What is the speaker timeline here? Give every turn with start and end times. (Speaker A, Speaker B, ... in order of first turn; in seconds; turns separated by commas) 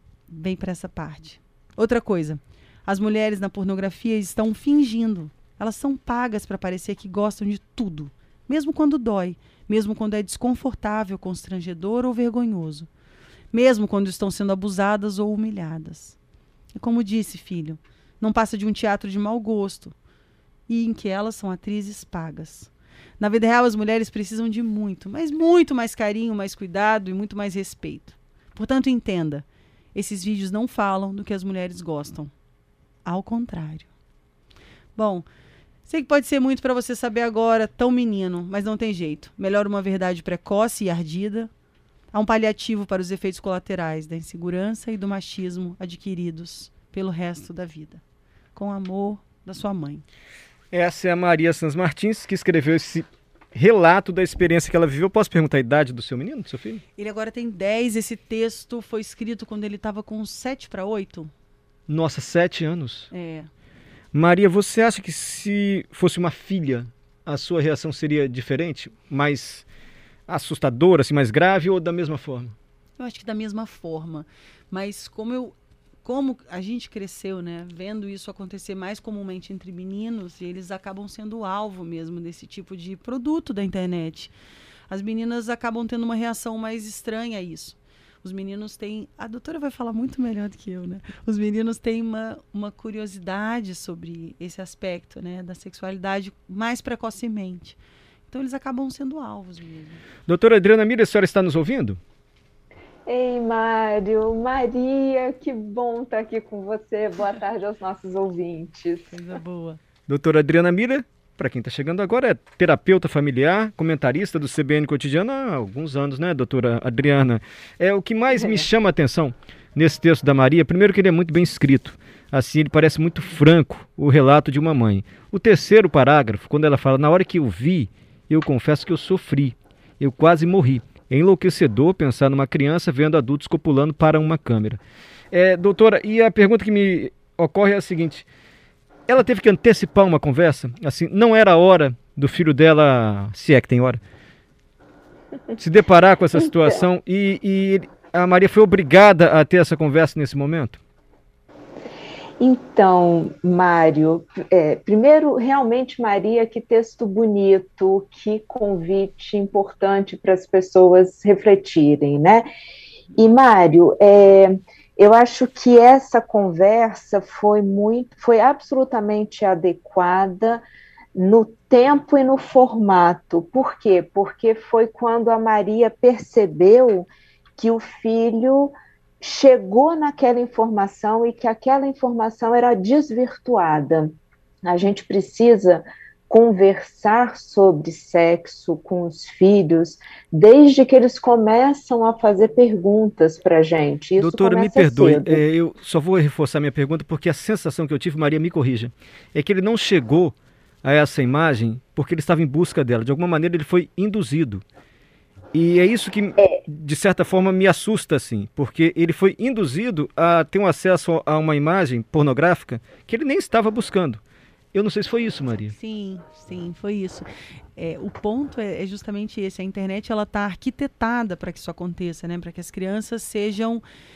Speaker A: 0.3-12.9, Speaker A: 13.5-16.2, Speaker A: 16.7-19.9, Speaker A: 20.7-32.3, Speaker A: 33.0-33.9, Speaker A: 35.0-35.2, Speaker A: 35.9-41.5, Speaker A: 42.1-48.0, Speaker A: 48.5-50.0, Speaker B: 50.7-56.8, Speaker A: 57.0-61.3, Speaker B: 61.9-63.1, Speaker A: 63.1-63.5, Speaker B: 64.1-69.7, Speaker B: 70.3-72.5, Speaker A: 73.0-84.3, Speaker A: 84.9-100.0, Speaker B: 100.3-102.0, Speaker C: 103.0-109.1, Speaker A: 109.1-109.8, Speaker B: 110.1-134.8, Speaker C: 118.3-118.6, Speaker B: 135.3-138.3, Speaker B: 139.1-144.0, Speaker B: 145.6-150.8, Speaker C: 152.4-162.4, Speaker C: 163.2-170.6, Speaker C: 171.1-184.1, Speaker C: 184.6-195.4, Speaker B: 194.2-204.6, Speaker B: 205.5-214.2, Speaker B: 214.7-215.7, Speaker A: 215.7-223.8